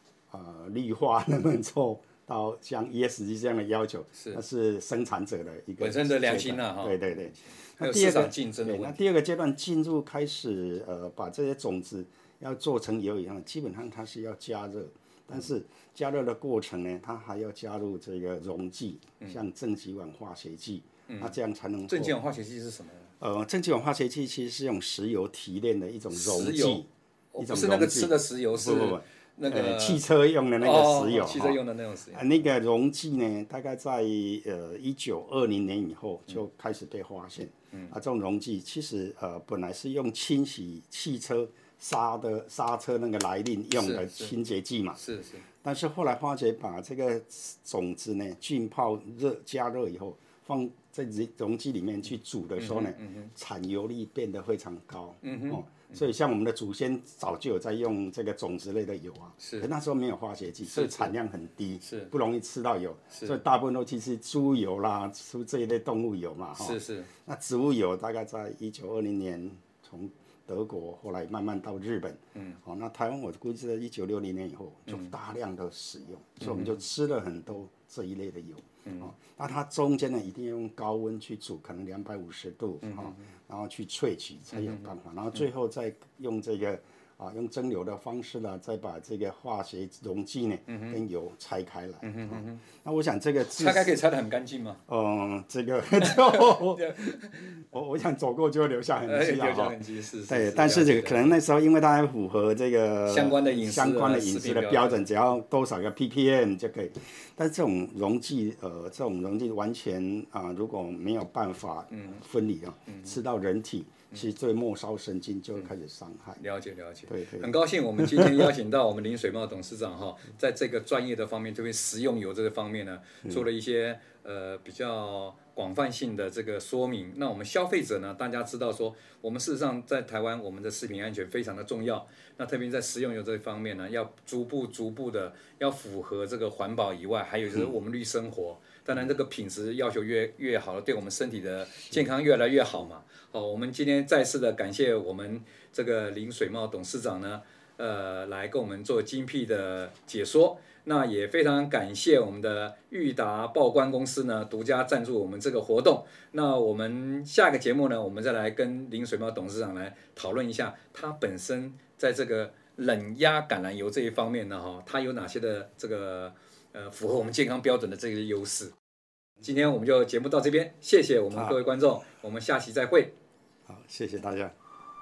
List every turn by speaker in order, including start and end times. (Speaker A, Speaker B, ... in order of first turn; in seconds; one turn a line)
Speaker A: 0.3-22.2
Speaker B: 5.8-9.0
Speaker B: 21.1-21.4
Speaker B: 21.9-23.1
Speaker A: 23.2-31.6
Speaker B: 26.1-30.0
Speaker B: 30.6-32.5
Speaker A: 32.1-45.0
Speaker B: 43.8-44.3
Speaker B: 45.0-45.5
Speaker A: 45.6-94.0
Speaker B: 52.6-53.3
Speaker B: 55.2-56.0
Speaker B: 59.4-59.7
Speaker B: 60.7-61.1
Speaker B: 61.8-62.1
Speaker B: 63.1-63.4
Speaker B: 66.6-67.1
Speaker B: 76.4-76.8
Speaker B: 82.8-83.2
Speaker B: 84.5-84.9
Speaker B: 90.7-91.0
Speaker B: 92.0-92.6
Speaker B: 93.5-94.8
Speaker A: 94.9-116.4
Speaker B: 96.0-97.6
Speaker B: 99.1-101.4
Speaker B: 103.1-105.1
Speaker B: 111.9-112.2
Speaker B: 112.9-113.2
Speaker B: 116.4-168.7
Speaker A: 117.1-118.5
Speaker B: 169.4-173.1
Speaker A: 171.3-171.6
Speaker A: 173.7-174.5